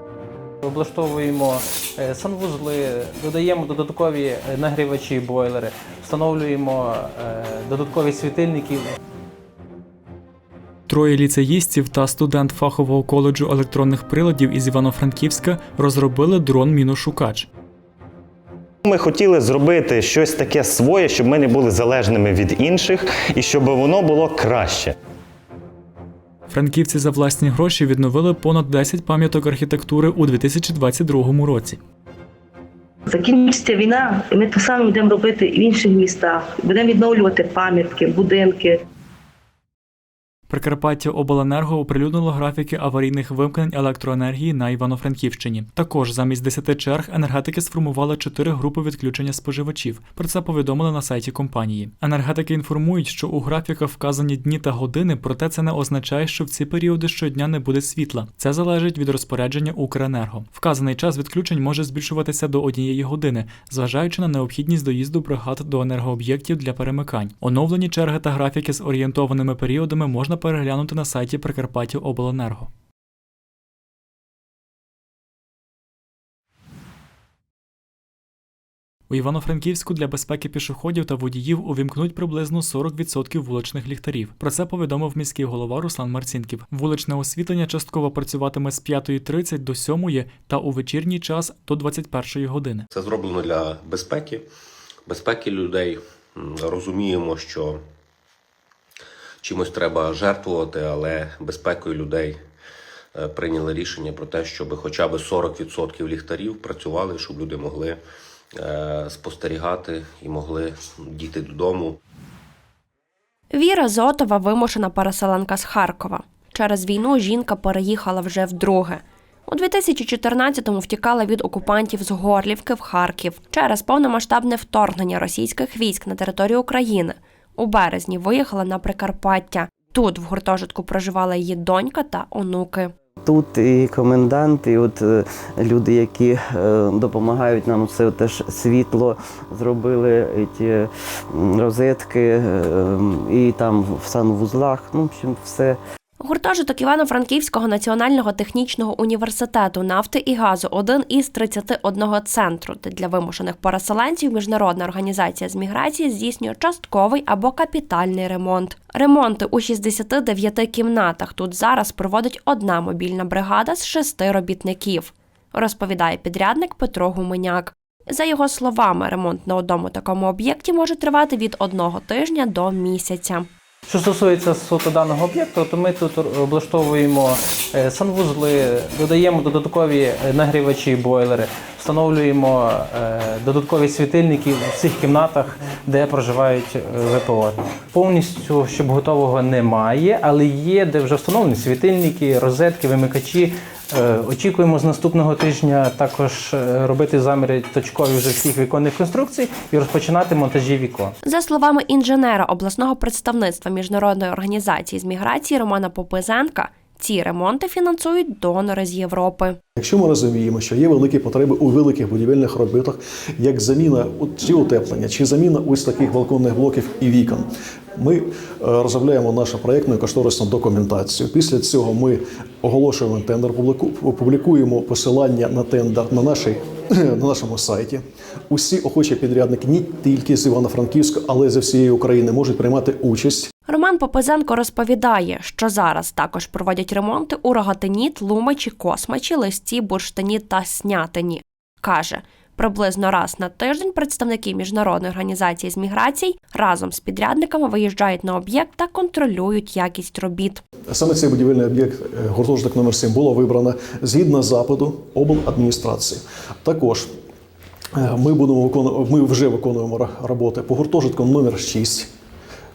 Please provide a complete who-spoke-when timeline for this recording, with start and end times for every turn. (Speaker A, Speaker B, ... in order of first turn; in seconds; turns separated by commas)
Speaker A: 0.7-8.9, Speaker B: 10.9-17.5, Speaker C: 18.9-24.9, Speaker B: 26.5-31.8, Speaker D: 33.1-38.8, Speaker B: 40.5-72.7, Speaker B: 79.1-92.8, Speaker E: 92.9-94.5, Speaker E: 95.1-97.8, Speaker E: 99.4-102.4, Speaker E: 103.2-108.0, Speaker E: 108.6-112.0, Speaker F: 113.5-132.9, Speaker G: 133.2-145.8, Speaker F: 146.2-173.5, Speaker A: 173.9-201.1, Speaker F: 201.2-209.6, Speaker H: 209.8-233.5, Speaker F: 233.7-250.6, Speaker H: 250.9-257.1, Speaker H: 258.0-262.1